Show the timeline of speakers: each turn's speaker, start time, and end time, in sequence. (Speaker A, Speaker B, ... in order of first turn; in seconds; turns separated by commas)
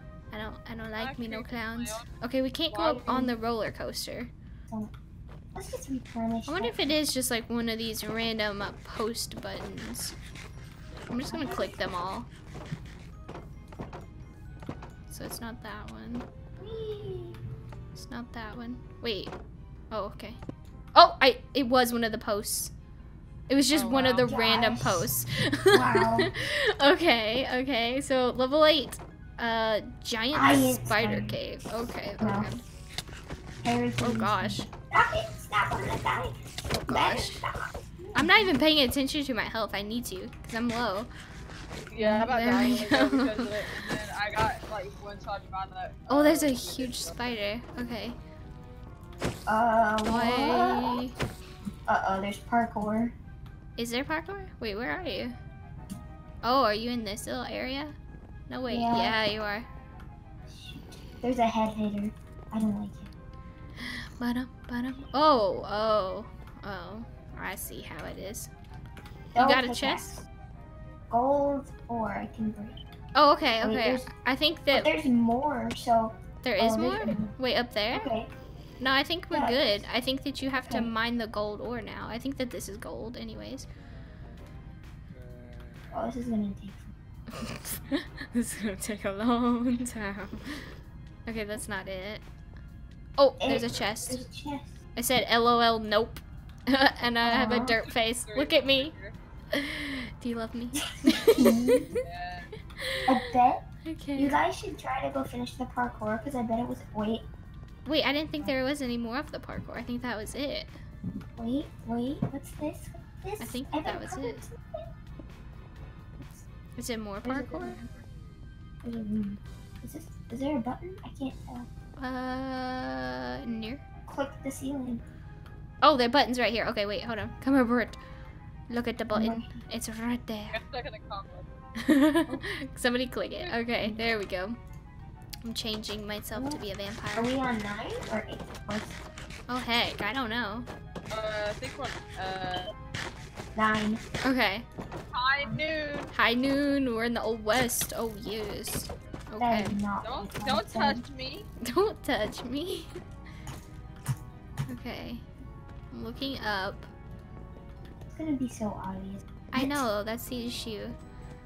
Speaker A: 0.3-4.3, Speaker B: 1.0-2.1, Speaker B: 2.7-3.2, Speaker C: 3.0-3.4, Speaker C: 5.5-7.0, Speaker A: 6.5-10.2, Speaker A: 11.1-12.3, Speaker C: 11.3-11.8, Speaker A: 15.1-16.3, Speaker C: 16.6-17.4, Speaker A: 17.9-19.3, Speaker A: 19.9-20.4, Speaker A: 20.9-22.7, Speaker A: 23.5-32.6, Speaker B: 23.7-24.3, Speaker C: 24.2-25.1, Speaker C: 25.7-26.3, Speaker C: 30.3-31.4, Speaker C: 32.2-32.5, Speaker C: 33.6-38.5, Speaker A: 34.0-34.7, Speaker A: 36.9-37.4, Speaker A: 38.1-41.1, Speaker B: 41.9-47.4, Speaker C: 42.0-42.4, Speaker A: 42.2-43.5, Speaker A: 46.1-48.2, Speaker C: 49.5-51.0, Speaker A: 50.1-51.2, Speaker C: 51.9-53.1, Speaker A: 53.8-55.4, Speaker A: 56.4-58.0, Speaker A: 58.5-59.7, Speaker C: 58.7-59.2, Speaker C: 60.5-63.1, Speaker A: 63.8-68.5, Speaker C: 69.3-70.2, Speaker A: 69.3-70.2, Speaker C: 71.1-72.8, Speaker A: 73.2-74.9, Speaker C: 73.6-74.1, Speaker C: 74.7-77.3, Speaker A: 76.4-78.1, Speaker C: 77.9-78.3, Speaker A: 78.8-83.7, Speaker C: 79.3-79.8, Speaker C: 80.6-80.9, Speaker C: 85.9-86.9, Speaker A: 87.3-90.7, Speaker A: 91.3-92.2, Speaker A: 93.2-94.2, Speaker C: 93.4-94.8, Speaker A: 95.0-98.9, Speaker C: 97.2-97.8, Speaker B: 97.6-99.2, Speaker A: 99.5-102.0, Speaker C: 101.2-102.0, Speaker B: 102.0-102.5, Speaker A: 102.8-103.2, Speaker C: 103.1-103.7, Speaker A: 103.8-104.4, Speaker C: 104.2-107.3, Speaker A: 107.9-110.8, Speaker C: 111.4-114.9, Speaker A: 113.4-114.5, Speaker A: 116.8-117.8, Speaker C: 117.2-118.0, Speaker C: 118.8-121.7, Speaker A: 122.0-123.8, Speaker C: 124.1-125.0, Speaker A: 125.8-128.0, Speaker A: 128.7-130.6, Speaker C: 129.1-129.6, Speaker B: 130.5-131.5, Speaker A: 131.8-134.6, Speaker B: 133.3-133.6, Speaker A: 135.4-137.3, Speaker C: 136.3-136.6, Speaker C: 137.2-139.0, Speaker A: 139.5-140.7, Speaker B: 141.1-142.7, Speaker C: 143.6-144.0, Speaker A: 144.2-144.7, Speaker B: 145.1-146.1, Speaker A: 146.1-149.8, Speaker C: 149.4-151.1, Speaker B: 150.0-151.5, Speaker A: 151.6-152.9, Speaker A: 154.7-155.2, Speaker A: 155.9-156.9, Speaker C: 158.1-159.9, Speaker A: 159.5-161.0